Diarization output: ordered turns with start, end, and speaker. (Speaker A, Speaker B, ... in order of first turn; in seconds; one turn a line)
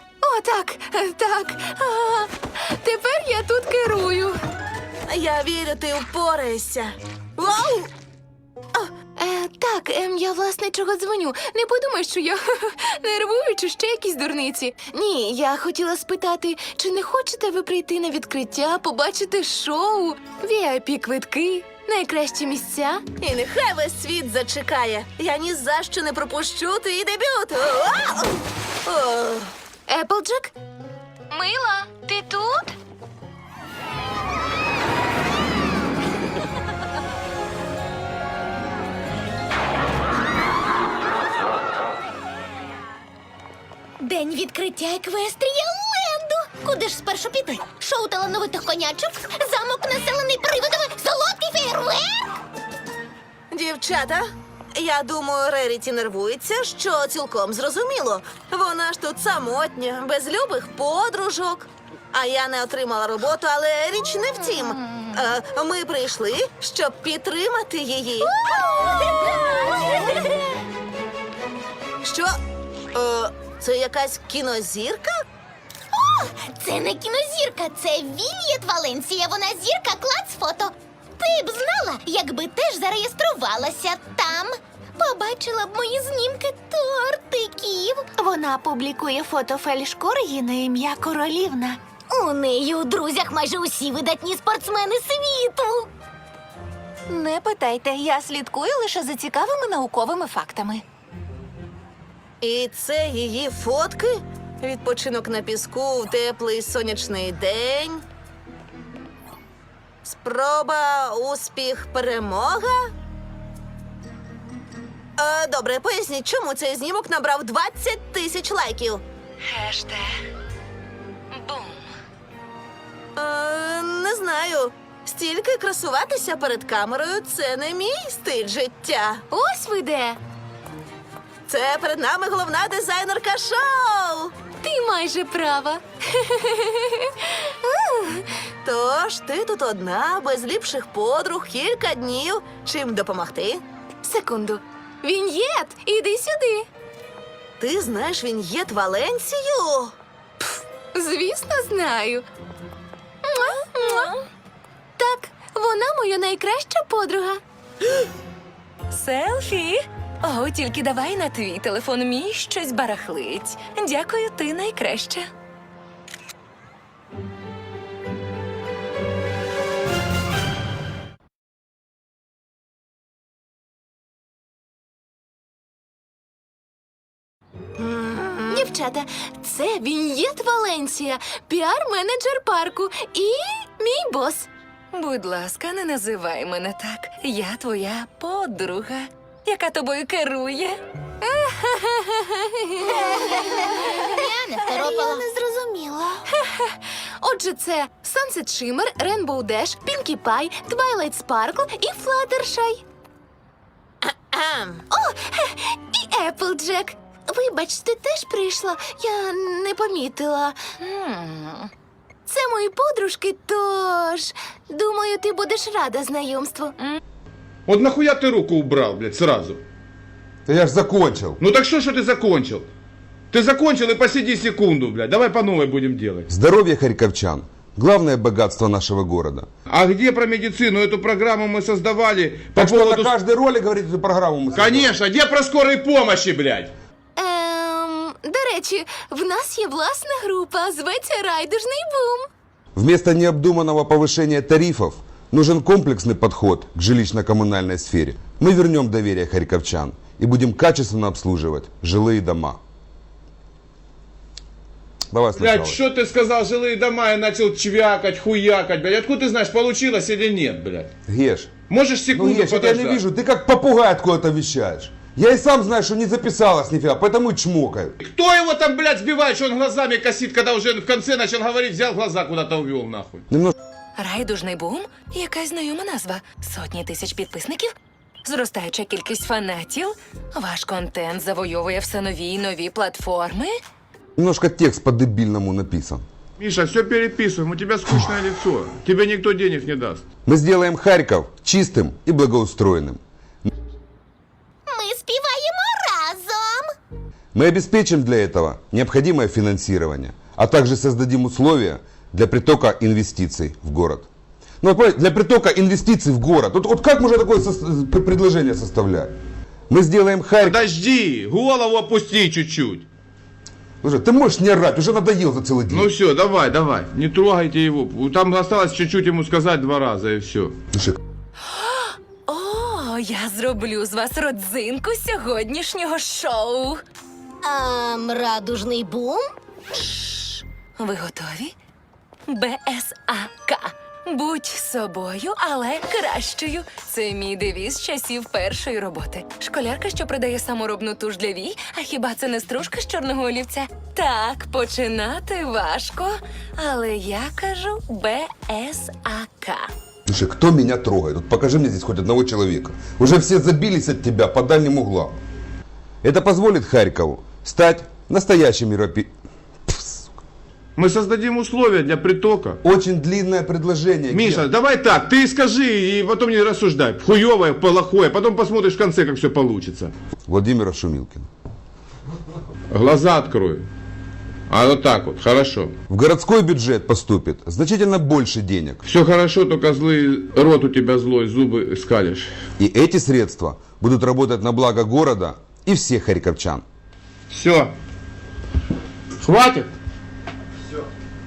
Speaker A: 0.2-4.4
Speaker B: 5.1-7.9
Speaker A: 9.2-23.0
Speaker B: 23.2-29.5
Speaker A: 29.9-30.6
Speaker A: 31.3-32.7
Speaker C: 44.0-52.2
Speaker B: 53.5-54.2
Speaker B: 54.8-68.4
Speaker C: 68.5-70.0
Speaker B: 72.0-72.3
Speaker B: 72.9-75.1
Speaker C: 75.9-88.1
Speaker D: 88.2-91.8
Speaker C: 92.1-95.9
Speaker D: 97.1-100.8
Speaker B: 102.4-108.0
Speaker B: 110.0-112.8
Speaker B: 115.2-119.0
Speaker E: 119.5-120.2
Speaker E: 121.3-121.9
Speaker B: 123.2-129.2
Speaker A: 129.3-130.2
Speaker B: 131.5-134.3
Speaker A: 134.6-138.3
Speaker B: 138.7-143.6
Speaker A: 144.0-146.7
Speaker B: 147.6-149.9
Speaker A: 150.9-152.3
Speaker A: 153.2-154.2
Speaker E: 153.6-154.2
Speaker A: 155.0-157.4
Speaker E: 158.9-165.3
Speaker B: 177.8-178.7
Speaker A: 178.5-184.5
Speaker E: 184.9-190.8
Speaker A: 191.2-194.2
Speaker C: 192.9-195.3
Speaker A: 196.3-202.8
Speaker B: 204.1-204.8
Speaker A: 204.9-210.6
Speaker E: 210.8-211.7
Speaker A: 212.3-216.8
Speaker F: 217.7-219.6
Speaker G: 220.5-221.4
Speaker F: 221.4-222.7
Speaker F: 223.3-226.3
Speaker G: 226.3-229.5
Speaker F: 229.7-233.2
Speaker G: 232.6-234.9
Speaker F: 234.5-236.7
Speaker A: 237.2-242.3
Speaker G: 242.8-252.6
Speaker G: 255.1-255.8
Speaker F: 255.3-260.9
Speaker G: 261.1-261.5
Speaker F: 261.7-263.0
Speaker G: 262.1-268.0
Speaker F: 268.0-273.2
Speaker E: 274.0-277.7
Speaker E: 278.2-283.5
Speaker G: 284.2-286.0
Speaker F: 286.4-290.1
Speaker G: 290.3-293.5
Speaker C: 294.7-296.7
Speaker G: 297.3-304.1
Speaker G: 304.6-309.1
Speaker G: 309.7-310.7
Speaker F: 310.4-312.9
Speaker G: 313.8-315.9
Speaker F: 315.7-320.6
Speaker E: 321.5-326.8
Speaker C: 327.4-329.3
Speaker E: 330.0-331.5
Speaker E: 332.3-349.7
Speaker G: 350.1-355.1
Speaker G: 356.0-359.1
Speaker G: 359.7-360.1
Speaker F: 360.8-362.6
Speaker G: 362.6-364.5
Speaker F: 364.1-369.9
Speaker G: 370.3-371.3
Speaker F: 372.7-373.6
Speaker F: 374.5-375.7
Speaker G: 375.9-378.8
Speaker F: 378.9-382.3
Speaker G: 382.6-386.6
Speaker F: 387.3-387.7
Speaker F: 389.2-389.7